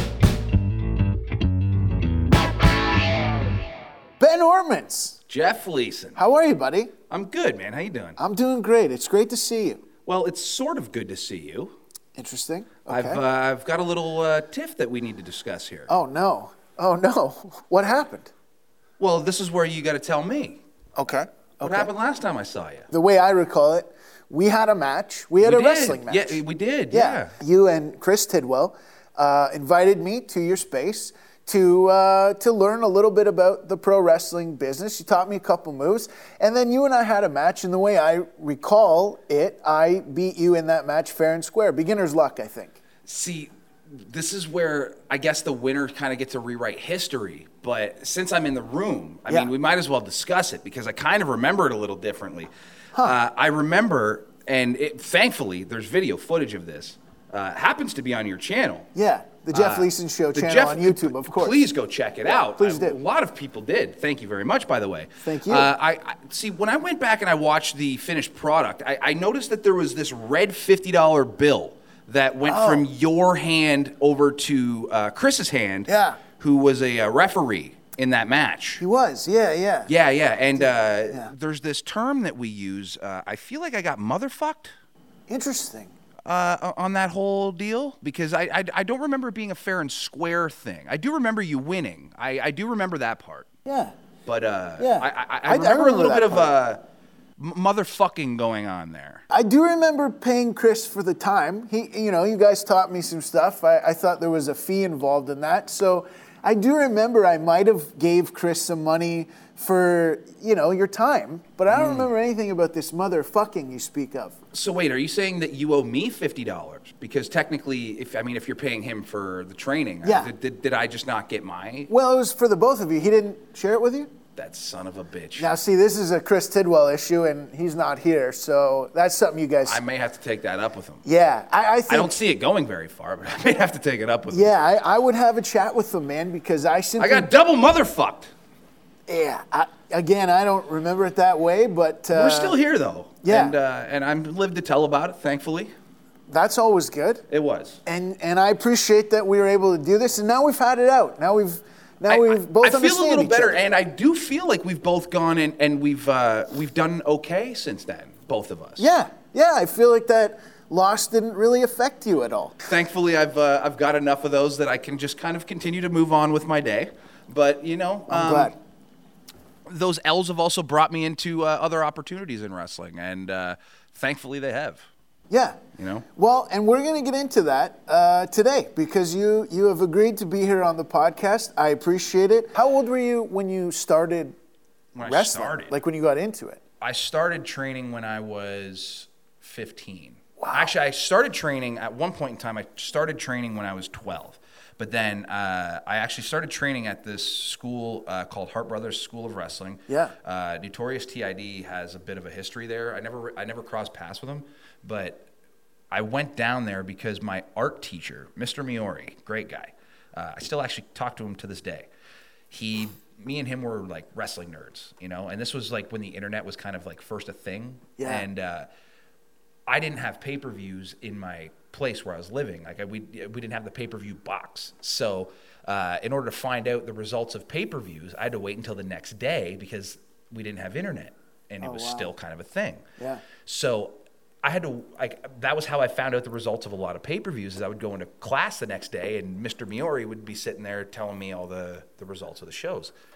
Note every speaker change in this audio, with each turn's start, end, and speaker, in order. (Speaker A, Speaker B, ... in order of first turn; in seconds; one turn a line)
Speaker A: 4.2-5.2
Speaker B: 5.3-6.2
Speaker A: 6.2-6.9
Speaker B: 7.1-8.2
Speaker A: 8.2-9.8
Speaker B: 10.0-11.7
Speaker A: 12.2-13.2
Speaker B: 12.9-15.9
Speaker A: 15.9-18.3
Speaker B: 19.0-20.6
Speaker A: 21.0-21.9
Speaker B: 21.6-22.9
Speaker A: 22.9-26.4
Speaker B: 25.4-27.3
Speaker A: 26.9-42.8
Speaker B: 43.0-58.9
Speaker A: 58.9-61.6
Speaker B: 59.5-78.8
Speaker A: 62.4-63.0
Speaker A: 65.2-65.7
Speaker A: 72.5-72.8
Speaker A: 75.9-76.2
Speaker A: 78.8-79.9
Speaker B: 79.9-84.7
Speaker A: 80.6-81.3
Speaker A: 85.3-85.9
Speaker B: 86.2-93.5
Speaker A: 93.7-93.9
Speaker B: 94.2-96.8
Speaker A: 94.8-96.5
Speaker B: 97.4-99.2
Speaker A: 99.3-114.4
Speaker B: 111.7-112.1
Speaker B: 114.5-121.9
Speaker A: 120.0-120.3
Speaker A: 121.9-124.1
Speaker B: 124.3-125.5
Speaker A: 125.4-129.8
Speaker B: 129.6-131.0
Speaker A: 131.0-132.2
Speaker B: 131.9-134.5
Speaker A: 134.3-137.3
Speaker B: 137.0-138.3
Speaker A: 139.1-142.6
Speaker B: 142.1-145.7
Speaker A: 143.2-143.6
Speaker A: 146.3-147.2
Speaker B: 147.3-147.8
Speaker A: 147.8-153.6
Speaker B: 152.1-158.8
Speaker A: 158.8-162.7
Speaker B: 162.7-168.6
Speaker A: 168.1-168.6
Speaker B: 169.7-174.9
Speaker A: 175.3-175.6
Speaker B: 175.8-176.0
Speaker A: 176.2-184.3
Speaker B: 184.9-185.7
Speaker A: 185.0-186.6
Speaker B: 186.8-205.3
Speaker A: 190.4-190.7
Speaker A: 199.9-200.1
Speaker B: 205.9-211.9
Speaker B: 212.5-218.7
Speaker A: 218.0-218.2
Speaker B: 219.7-232.8
Speaker A: 231.6-232.1
Speaker A: 233.0-233.2
Speaker B: 233.4-242.9